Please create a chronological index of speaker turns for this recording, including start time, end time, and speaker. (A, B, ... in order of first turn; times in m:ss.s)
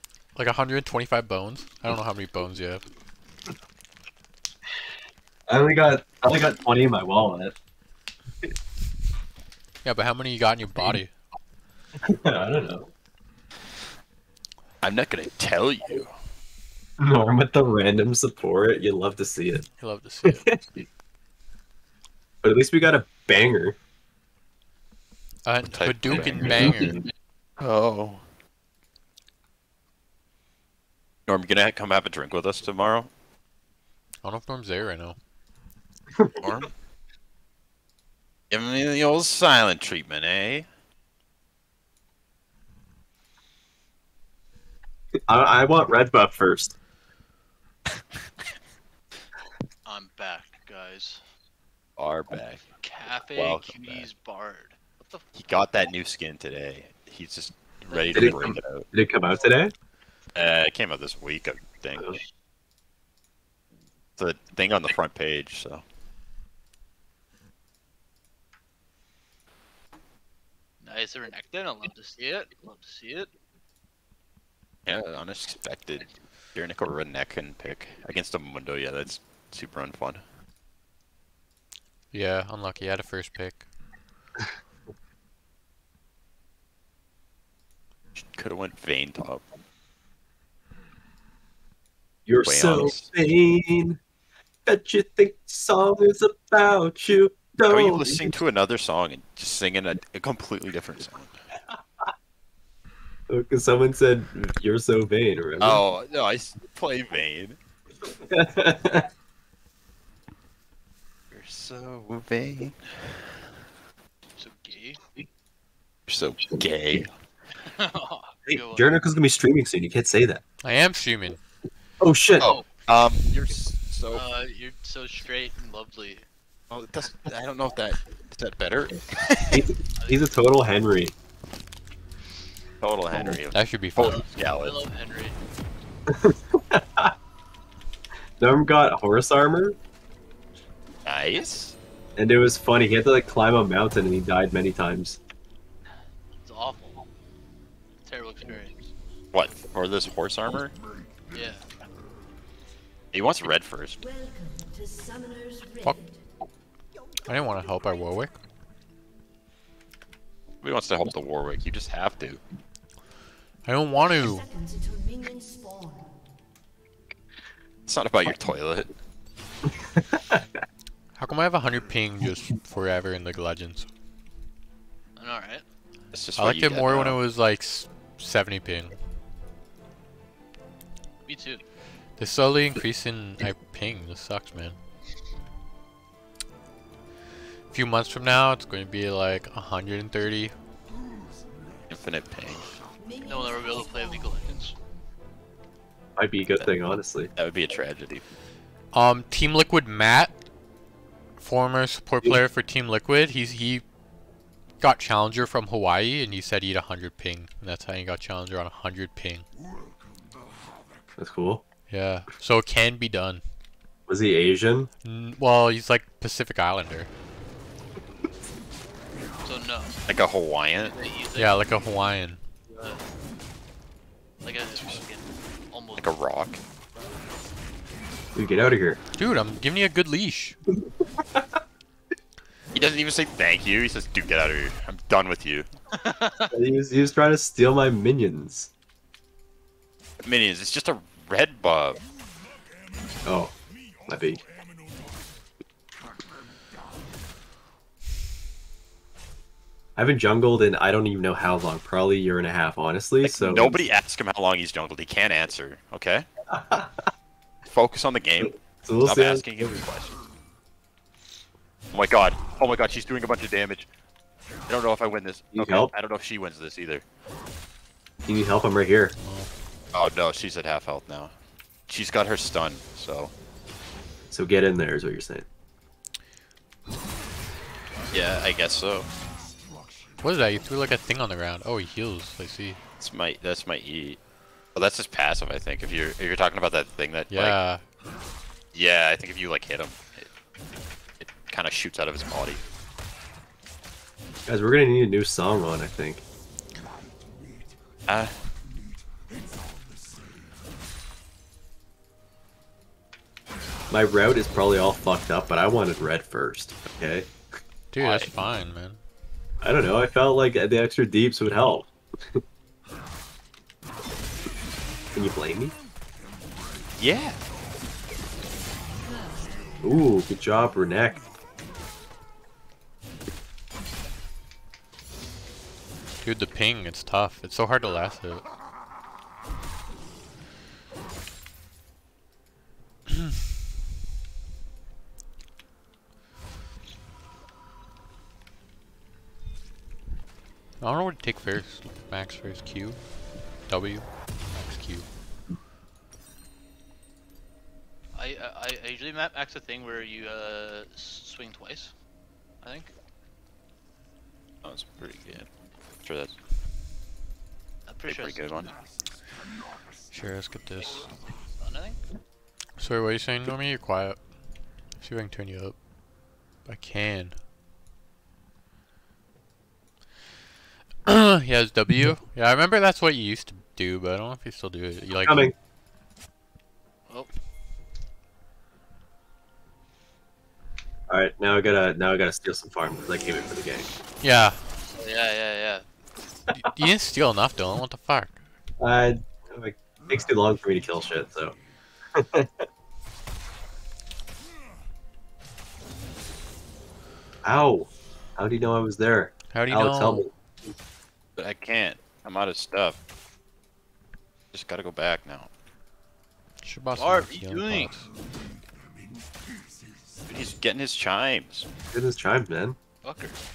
0:00.4-0:02.8 A
0:05.5-0:07.6 B
0:09.8-0:11.1 A
0:12.0-0:12.9 B
0:14.8-0:16.1 C
0:17.0-0:19.6 B
0:19.8-0:20.5 A
0:20.3-0:20.8 B
0:22.4-0:23.8 B
0:25.4-0:27.0 A
0:25.7-0:26.9 C
0:26.2-0:27.0 B
0:27.6-0:28.2 C
0:31.3-0:33.1 C
0:34.2-0:35.2 A
0:36.1-0:36.4 B
0:36.4-0:36.7 C
0:38.5-0:40.7 C
0:45.3-0:46.7 B
0:49.8-0:51.2 D
0:52.0-0:54.1 C
0:52.8-0:55.2 D
0:55.4-0:58.8 C
0:57.9-0:58.4 D
0:58.1-0:59.7 B
1:00.3-1:02.2 C
1:04.2-1:05.8 C
1:10.8-1:13.3 D
1:14.8-1:20.2 C
1:22.1-1:23.7 A
1:28.2-1:29.4 C
1:32.2-1:34.0 B
1:32.4-1:33.0 C
1:34.6-1:38.4 B
1:37.7-1:41.3 C
1:43.3-1:45.8 B
1:45.6-1:47.6 C
1:48.3-1:49.1 B
1:51.3-1:53.3 C
1:54.4-1:55.3 D
1:56.1-1:57.1 C
1:57.6-1:59.0 D
1:58.5-2:00.4 B
2:00.6-2:01.4 A
2:02.0-2:02.5 B
2:02.4-2:04.2 C
2:04.1-2:06.2 D
2:06.7-2:09.6 C
2:09.5-2:11.1 B
2:10.0-2:10.2 D
2:12.8-2:14.8 C
2:13.5-2:14.2 A
2:14.0-2:15.4 D
2:16.1-2:17.1 B
2:18.4-2:19.8 B
2:21.0-2:21.8 C
2:22.2-2:25.2 B
2:26.4-2:27.0 D
2:28.0-2:28.9 D
2:29.3-2:30.8 C
2:31.3-2:31.7 D
2:33.1-2:34.0 C
2:34.0-2:36.2 E
2:37.2-2:38.4 A
2:40.6-2:42.4 C
2:43.6-2:44.4 A
2:44.1-2:46.2 E
2:47.9-2:48.9 C
2:50.0-2:50.4 B
2:51.1-2:53.9 A
2:55.2-2:55.6 D
2:56.1-2:57.2 C
2:56.4-2:59.0 A
3:01.2-3:01.6 D
3:02.2-3:04.8 A
3:07.7-3:10.5 A
3:11.9-3:12.8 C
3:13.0-3:14.6 E
3:13.2-3:14.7 D
3:16.2-3:17.3 B
3:17.4-3:18.2 C
3:18.9-3:20.3 A
3:21.4-3:23.8 A
3:24.8-3:29.4 A
3:31.2-3:31.6 B
3:31.9-3:33.4 A
3:34.1-3:34.9 B
3:35.0-3:37.1 A
3:39.4-3:40.0 D
3:40.1-3:41.0 C
3:40.8-3:41.7 D
3:41.4-3:42.4 A
3:42.7-3:43.0 D
3:44.4-3:46.1 D
3:44.7-3:45.0 C
3:46.0-3:46.6 C
3:48.3-3:49.0 B
3:49.2-3:50.6 A
3:52.7-3:55.7 C
3:55.9-3:56.5 D
3:56.5-3:58.7 B
4:00.2-4:02.0 C
4:03.2-4:03.5 B
4:04.1-4:04.4 B
4:10.0-4:13.8 B
4:13.2-4:16.2 C
4:16.5-4:17.0 B
4:17.6-4:20.2 C
4:18.8-4:19.7 B
4:21.9-4:23.8 C
4:24.7-4:27.0 C
4:25.5-4:25.9 B
4:28.2-4:29.1 B
4:29.2-4:29.5 A
4:29.9-4:31.3 C
4:31.9-4:33.3 C
4:34.3-4:35.4 B
4:38.1-4:39.1 C
4:40.2-4:42.8 A
4:43.0-4:44.2 C
4:44.7-4:47.6 C
4:47.3-4:47.8 A
4:48.7-4:50.3 C
4:51.2-4:52.6 C
4:54.4-4:56.2 B
4:58.1-4:58.4 C
5:03.9-5:07.3 B
5:07.9-5:09.0 A
5:08.0-5:08.3 C
5:09.6-5:12.4 B
5:15.1-5:15.7 B
5:17.0-5:17.4 C
5:18.9-5:19.6 E
5:19.8-5:21.2 B
5:26.2-5:28.4 A
5:40.8-5:43.0 A
5:43.7-5:45.0 A
5:48.1-5:51.9 D
5:52.6-5:52.9 D
5:54.6-5:55.5 C
5:56.0-5:56.4 C
5:57.8-5:58.8 D
5:58.0-5:58.7 C
6:00.1-6:01.1 A
6:01.6-6:02.0 D
6:02.8-6:04.2 A
6:05.0-6:05.8 A
6:06.6-6:07.4 A
6:11.0-6:15.5 A
6:15.2-6:15.5 B
6:21.1-6:23.9 B
6:24.2-6:24.6 A
6:24.9-6:25.8 D
6:26.5-6:28.4 A
6:28.8-6:31.6 B
6:32.1-6:32.6 B
6:37.4-6:40.3 B
6:39.5-6:40.2 A
6:41.4-6:43.0 C
6:44.5-6:45.5 C
6:46.6-6:48.1 A
6:47.0-6:47.9 D
6:50.3-6:51.7 C
6:51.9-6:52.8 B
6:53.0-6:53.4 D